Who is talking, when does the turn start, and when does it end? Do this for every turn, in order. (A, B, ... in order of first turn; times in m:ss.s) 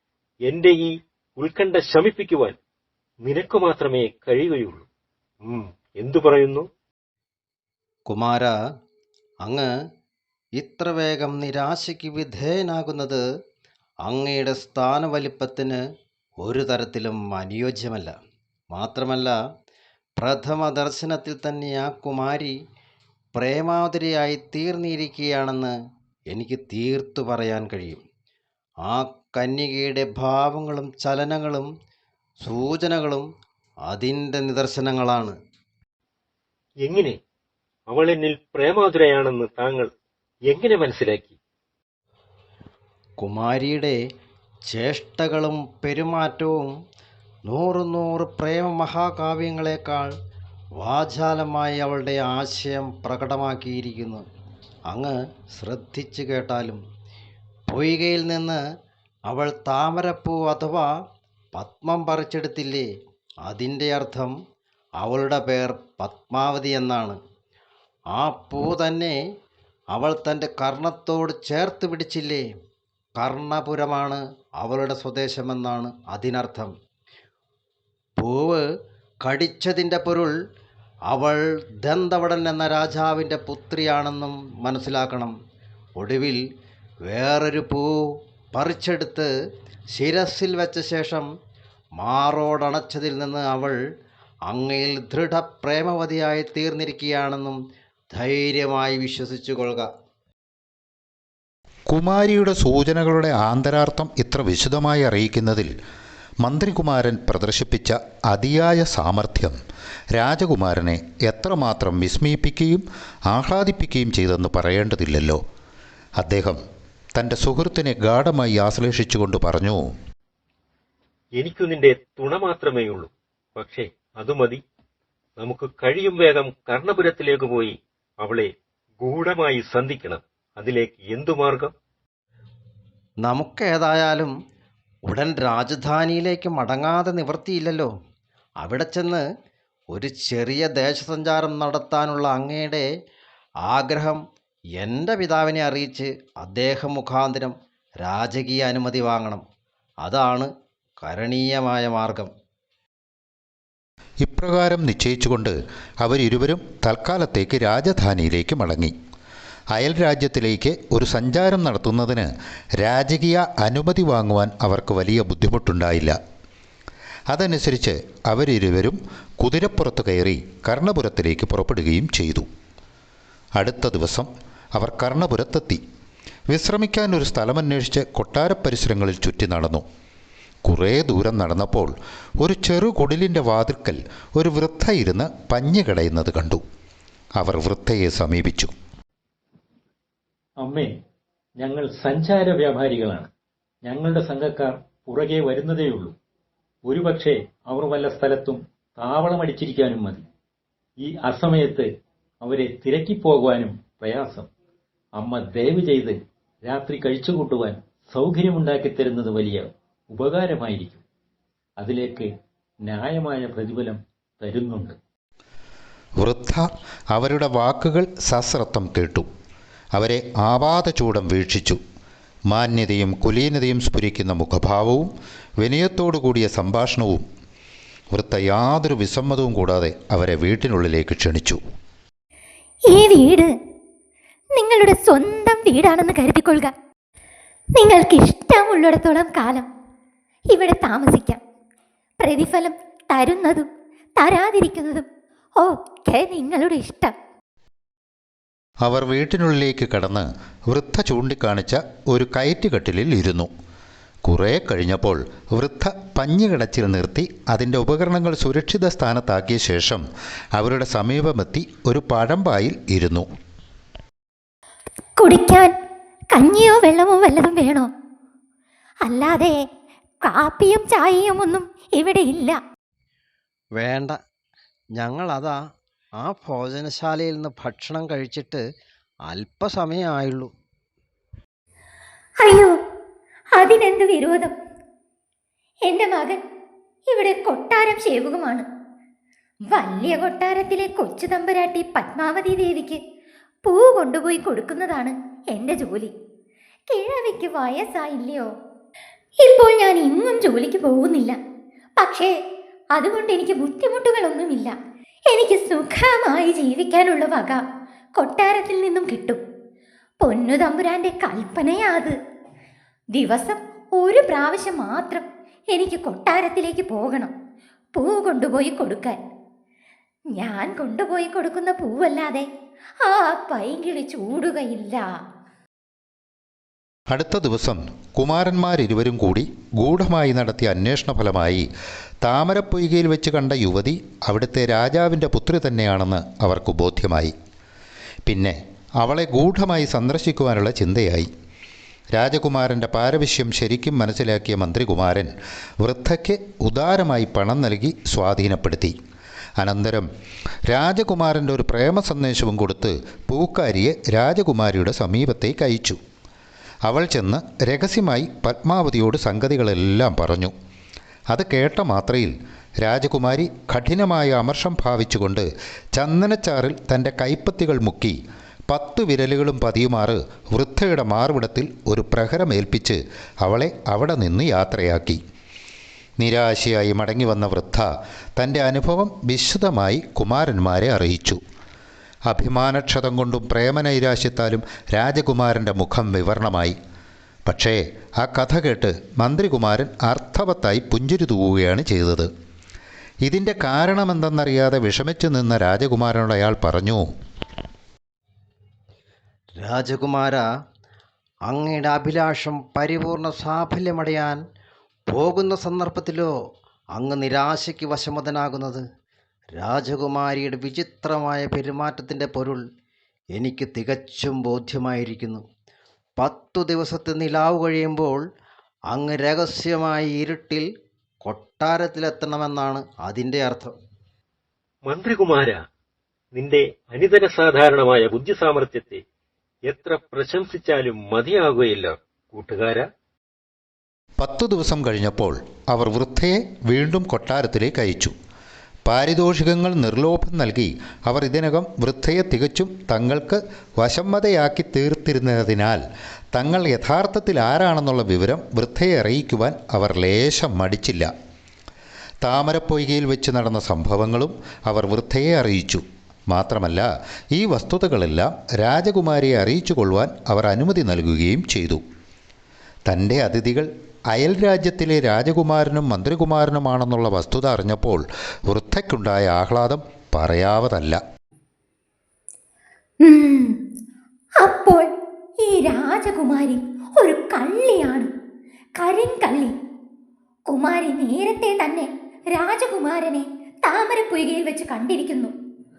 0:00.5-0:02.6 A
0:03.2-0:04.8 A
0:05.4-0:06.7 A
0:08.1-0:08.5 B
0:09.4-0:09.7 B
0:10.6-0:13.2 B
0:14.0-0:15.8 B
0:16.4-0:18.1 B
0:18.7-0:19.4 B
0:20.2-0:22.6 B
0:23.4-0:25.8 B
0:26.3-0:28.0 B
0:28.8-0:31.7 B
0:32.4-0:33.3 B
0:33.9-0:35.4 B
0:36.8-0:37.2 A
0:37.9-0:39.9 A
0:40.5-0:41.4 A
0:43.2-0:44.0 B
0:44.7-0:46.7 B
0:47.5-0:50.1 B
0:50.8-0:54.2 B
0:54.9-0:56.8 B
0:57.7-0:58.6 B
0:59.3-1:00.9 B
1:01.6-1:02.9 B
1:03.4-1:04.4 B
1:05.0-1:07.2 B
1:08.1-1:09.2 B
1:09.9-1:12.5 B
1:13.2-1:16.7 B
1:18.2-1:18.6 B
1:19.2-1:20.3 B
1:21.1-1:25.3 B
1:26.0-1:26.4 B
1:27.1-1:27.9 B
1:28.5-1:29.3 B
1:29.9-1:31.3 B
1:32.0-1:33.8 B
1:34.5-1:37.6 B
1:38.1-1:39.9 B
1:41.9-1:45.7 C
1:46.4-1:49.6 C
1:50.2-1:55.4 C
1:56.2-1:56.6 C
1:57.2-1:59.8 C
2:01.4-2:04.6 A
2:05.4-2:11.7 A
2:13.2-2:14.3 B
2:15.1-2:17.9 B
2:18.6-2:19.2 B
2:19.9-2:22.9 B
2:23.6-2:24.2 B
2:24.8-2:29.4 B
2:30.0-2:32.3 B
2:34.2-2:39.0 C
2:39.7-2:46.2 C
2:47.3-2:52.5 C
2:53.6-2:55.8 C
2:56.5-2:59.8 C
3:00.6-3:06.6 C
3:07.4-3:08.7 C
3:10.6-3:11.0 D
3:11.6-3:13.3 D
3:13.8-3:16.2 D
3:16.8-3:20.3 D
3:21.0-3:21.9 D
3:22.4-3:24.5 D
3:25.2-3:31.0 D
3:31.8-3:32.3 D
3:32.8-3:35.0 D
3:36.2-3:39.3 C
3:40.0-3:41.8 C
3:42.5-3:47.2 C
3:48.1-3:51.6 C
3:52.9-3:53.5 E
3:54.6-3:56.7 E
3:57.8-3:59.7 E
4:00.5-4:01.4 E
4:02.2-4:05.1 E
4:05.6-4:07.1 E
4:08.8-4:13.5 C
4:14.2-4:23.3 C
4:25.2-4:25.7 E
4:26.3-4:27.9 E
4:29.0-4:29.6 E
4:30.2-4:32.6 E
4:33.8-4:34.2 B
4:35.0-4:35.6 B
4:36.2-4:38.6 B
4:39.3-4:40.5 B
4:42.4-4:42.8 E
4:43.6-4:44.6 E
4:45.9-4:46.4 E
4:47.1-4:48.7 E
4:49.7-4:53.0 E
4:53.6-4:56.1 E
4:56.9-4:58.5 E
4:59.4-5:01.4 E
5:02.0-5:02.3 E
5:02.9-5:04.7 E
5:05.3-5:07.6 E
5:08.2-5:09.4 E
5:10.2-5:12.2 E
5:13.1-5:17.3 E
5:18.0-5:19.2 E
5:20.4-5:22.5 E
5:23.0-5:25.1 E
5:27.1-5:31.7 C
5:32.2-5:37.4 C
5:38.2-5:41.3 C
5:42.1-5:49.0 C
5:49.6-5:50.1 C
5:50.7-5:56.0 C
5:56.8-6:00.5 C
6:01.3-6:15.2 C
6:16.2-6:21.4 C
6:22.3-6:26.8 C
6:27.5-6:32.3 C
6:33.2-6:37.1 C
6:39.6-6:40.4 B
6:41.5-6:44.4 B
6:45.1-6:46.3 B
6:47.0-6:48.8 B
6:49.5-6:52.6 B
6:53.3-6:55.4 B
6:56.2-6:58.2 B
6:58.9-7:00.6 B
7:01.2-7:03.7 B
7:04.9-7:05.6 A
7:06.4-7:09.0 A
7:09.7-7:12.9 A
7:14.2-7:18.1 C
7:18.9-7:25.8 C
7:26.3-7:31.1 C
7:32.2-7:41.8 C
7:42.9-7:51.0 C
7:53.0-7:53.6 E
7:54.4-7:54.9 E
7:55.4-7:58.1 E
7:58.8-7:59.6 E
8:00.5-8:05.3 E